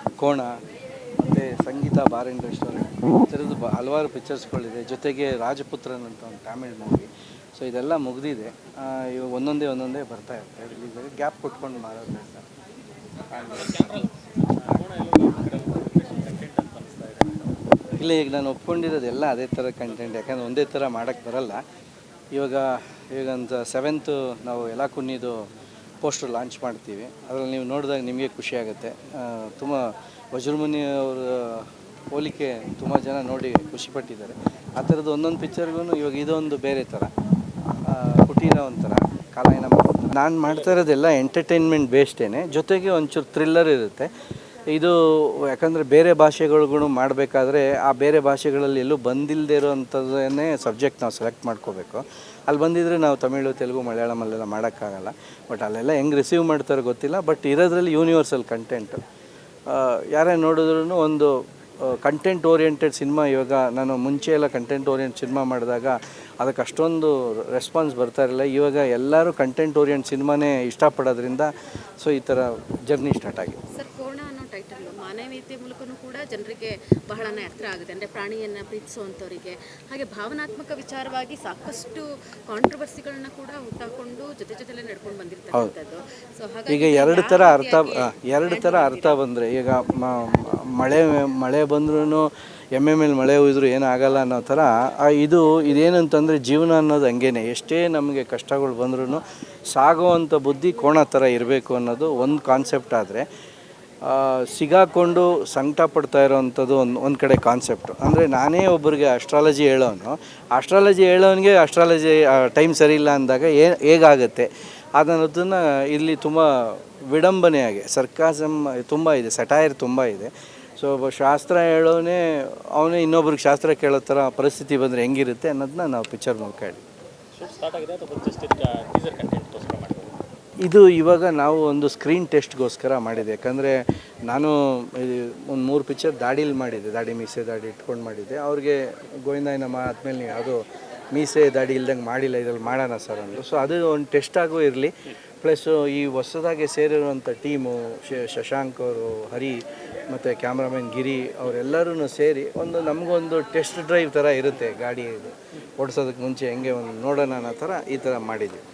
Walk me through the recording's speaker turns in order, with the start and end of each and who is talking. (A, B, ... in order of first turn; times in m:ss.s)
0:00.2-0:00.6 A
0:01.2-0:12.5 A
0:13.3-0:14.0 A
0:13.3-0:17.6 B
0:18.0-0:21.6 A
0:22.3-0:25.5 A
0:26.0-0:37.1 A
0:37.8-0:44.1 A
0:40.4-0:40.8 B
0:44.7-0:59.0 A
0:59.7-1:13.6 A
1:13.7-1:29.2 C
1:26.7-1:43.3 A
1:44.0-2:06.8 A
2:07.4-2:10.1 B
2:10.6-2:38.6 A